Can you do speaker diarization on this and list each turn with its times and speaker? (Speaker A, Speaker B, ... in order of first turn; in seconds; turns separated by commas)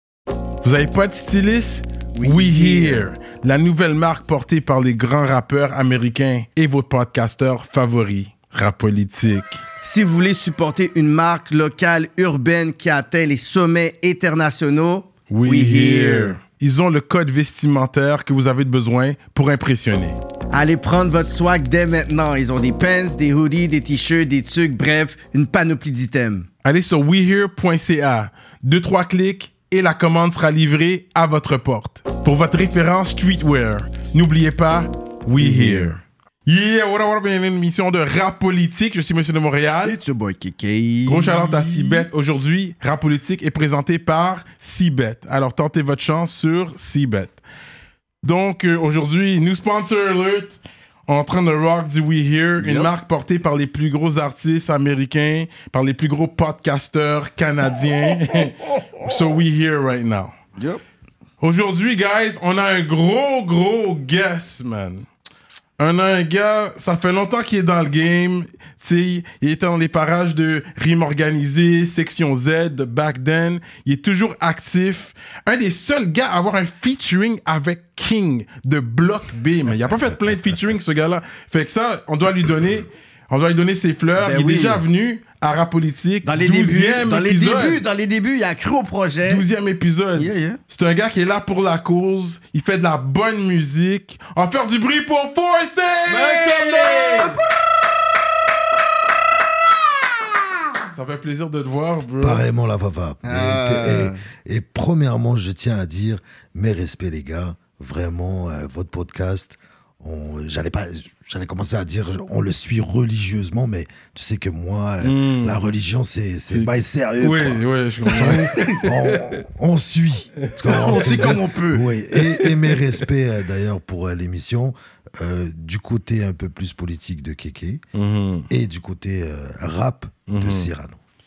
Speaker A: 0.6-9.6, Speaker B: 2.1-3.0, Speaker B: 9.8-16.4, Speaker A: 15.3-20.2, Speaker B: 20.5-26.5, Speaker A: 26.6-40.0, Speaker B: 35.4-36.0, Speaker B: 39.8-42.0, Speaker A: 41.1-47.4, Speaker A: 48.2-60.3, Speaker B: 52.6-52.9, Speaker A: 61.4-65.0, Speaker A: 65.8-87.8, Speaker C: 79.8-80.7, Speaker B: 84.2-84.8, Speaker B: 86.2-89.4, Speaker A: 89.2-97.3, Speaker B: 90.2-90.6, Speaker B: 96.1-97.4, Speaker A: 100.9-102.4, Speaker C: 102.2-127.8, Speaker B: 103.2-104.2, Speaker A: 115.0-115.6, Speaker A: 116.5-119.4, Speaker B: 118.1-118.8, Speaker A: 120.4-121.4, Speaker B: 120.7-121.9, Speaker A: 122.2-122.7, Speaker A: 127.9-128.5, Speaker C: 128.5-131.0, Speaker A: 130.3-130.7